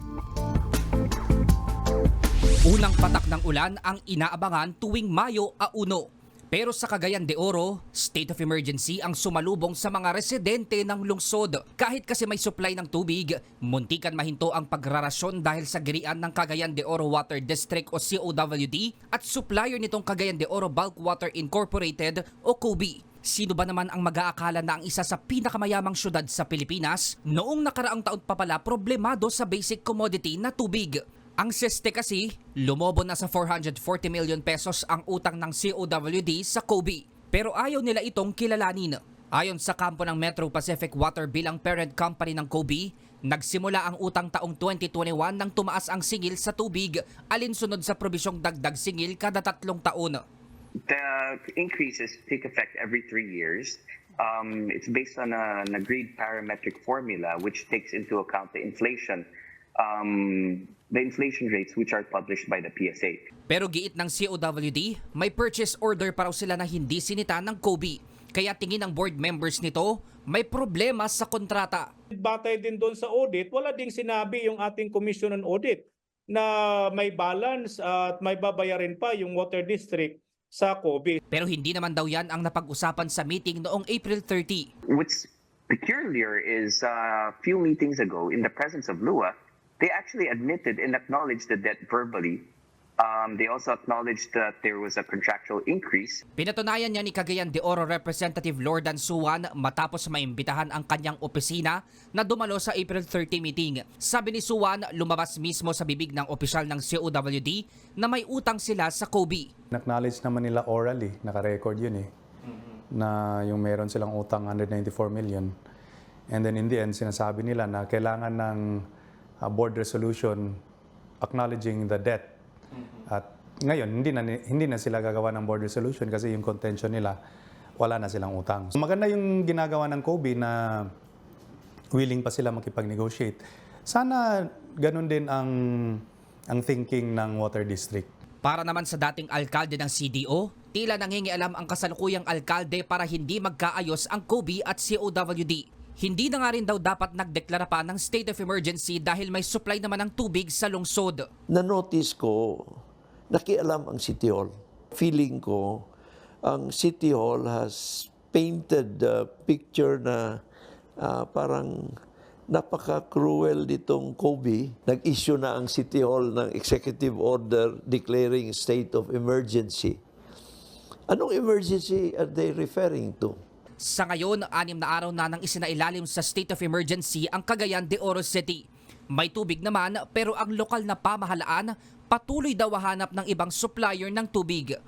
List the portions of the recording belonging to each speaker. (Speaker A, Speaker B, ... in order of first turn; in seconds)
Speaker A: 2.7-50.2, 63.5-71.8, 81.3-84.7, 96.4-109.5, 138.4-151.2, 173.8-184.7
Speaker B: 50.9-63.2, 84.9-92.5, 93.0-96.2
Speaker C: 72.1-81.2
Speaker D: 109.7-112.1, 112.9-115.5, 116.3-118.8, 119.4-120.5, 121.2-122.3, 123.1-127.1, 127.8-130.9, 131.9-138.1
Speaker E: 151.5-155.8, 156.4-160.4, 161.0-170.0, 171.1-173.4